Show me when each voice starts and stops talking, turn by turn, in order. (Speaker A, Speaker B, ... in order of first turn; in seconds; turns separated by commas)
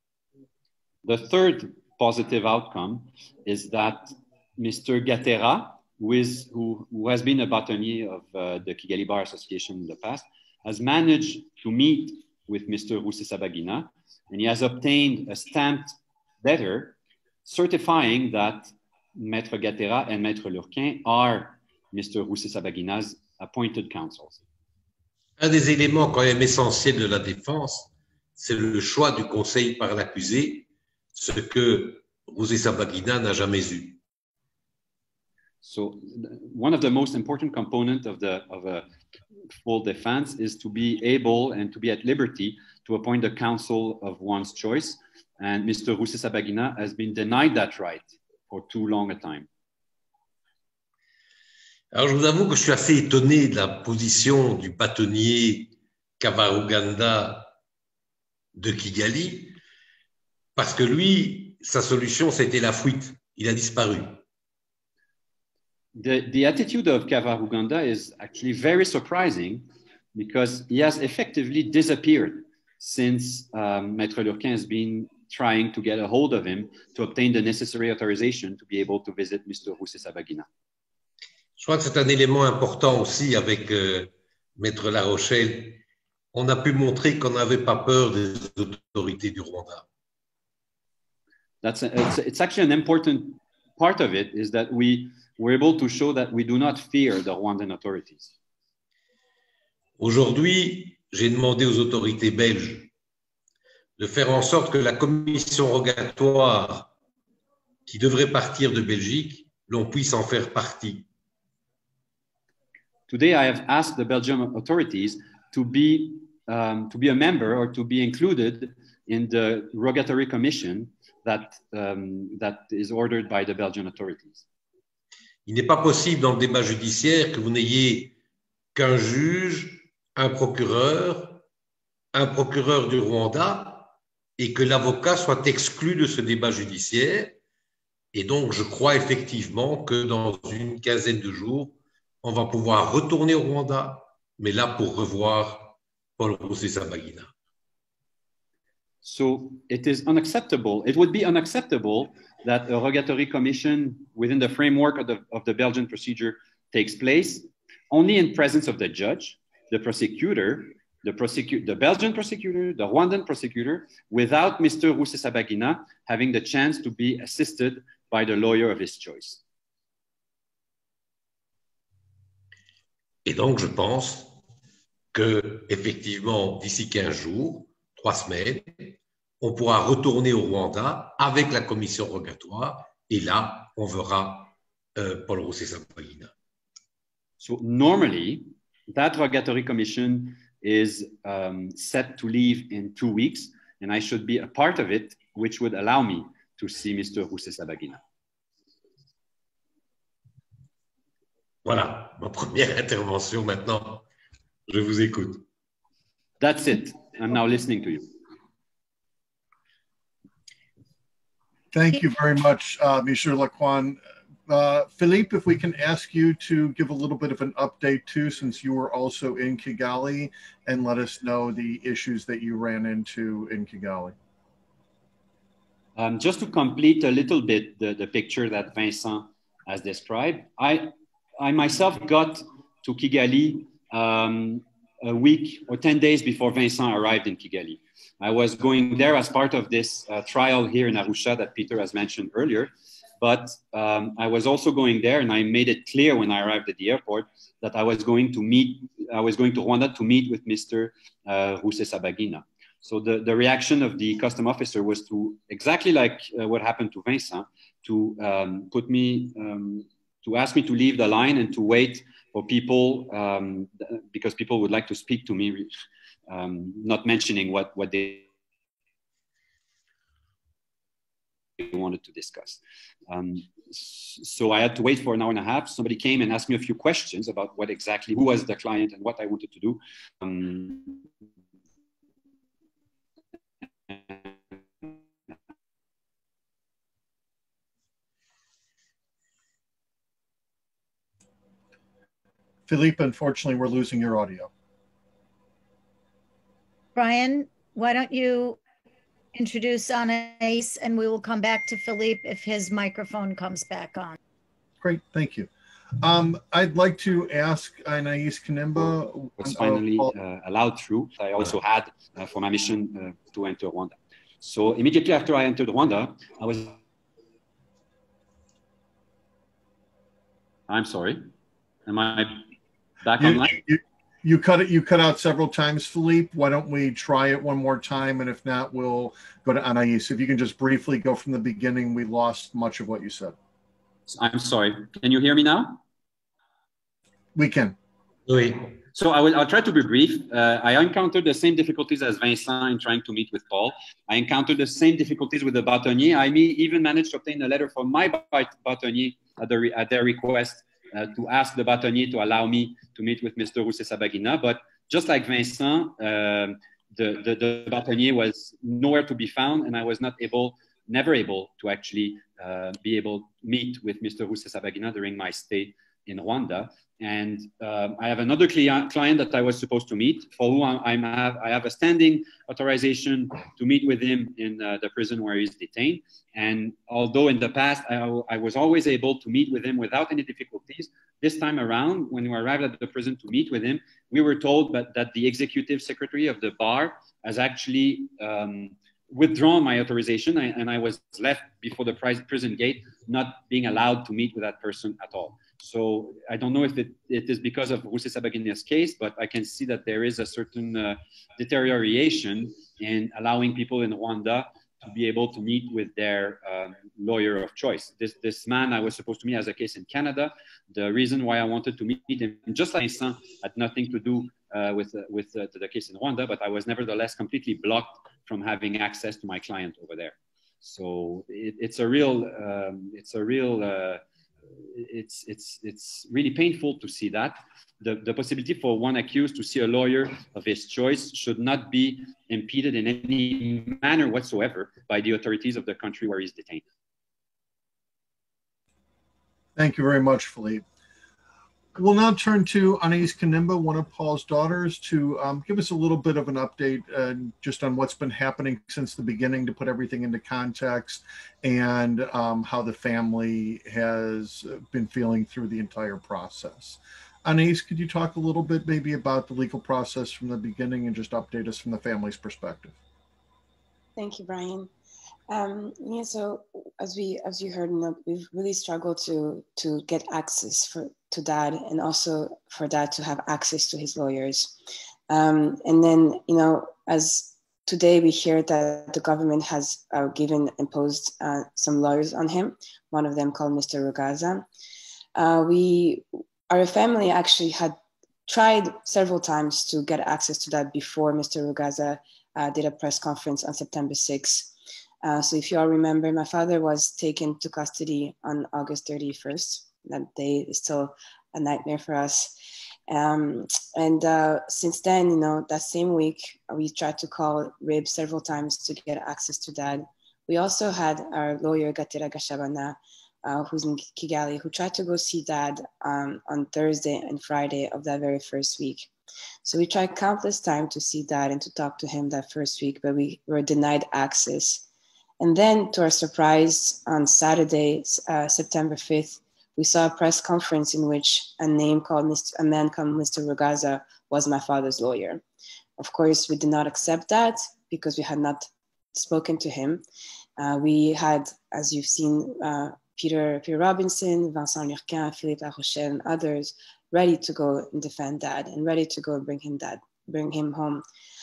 Speaker A: 1.0-24.4, Speaker B: 25.4-34.0, Speaker A: 35.6-38.9, Speaker A: 39.6-49.5, Speaker B: 51.9-57.5, Speaker B: 58.5-59.6, Speaker B: 60.5-64.2, Speaker A: 65.9-80.5, Speaker B: 81.6-85.8, Speaker B: 86.3-89.8, Speaker A: 91.6-98.3, Speaker B: 100.0-102.9, Speaker B: 104.0-106.9, Speaker B: 107.9-111.1, Speaker A: 113.1-124.4, Speaker B: 125.5-128.1, Speaker B: 128.7-131.4, Speaker B: 132.1-137.4, Speaker B: 138.1-147.3, Speaker A: 149.0-169.4, Speaker B: 173.2-174.4, Speaker B: 175.1-186.3, Speaker A: 187.4-198.0, Speaker B: 201.6-204.1, Speaker B: 204.7-205.4, Speaker A: 206.4-208.1, Speaker C: 211.7-224.1, Speaker A: 225.9-265.7, Speaker A: 266.3-268.2, Speaker A: 271.6-281.0, Speaker A: 283.9-284.3, Speaker C: 292.7-294.5, Speaker D: 296.9-298.6, Speaker D: 299.3-304.2, Speaker C: 304.8-305.5, Speaker C: 306.0-310.1, Speaker A: 309.4-316.8, Speaker A: 320.7-321.3, Speaker A: 321.9-322.5, Speaker A: 323.0-323.6, Speaker C: 323.2-333.4, Speaker A: 334.1-335.8, Speaker C: 337.3-337.7, Speaker B: 338.3-338.7, Speaker A: 338.9-424.0, Speaker A: 424.6-436.6, Speaker C: 439.6-440.6, Speaker C: 441.8-462.8, Speaker E: 463.9-464.7, Speaker E: 465.3-474.5, Speaker E: 475.1-484.4, Speaker E: 485.1-502.4, Speaker E: 502.9-518.9, Speaker E: 519.4-524.6, Speaker E: 525.2-535.2, Speaker E: 535.8-539.8, Speaker E: 540.4-550.8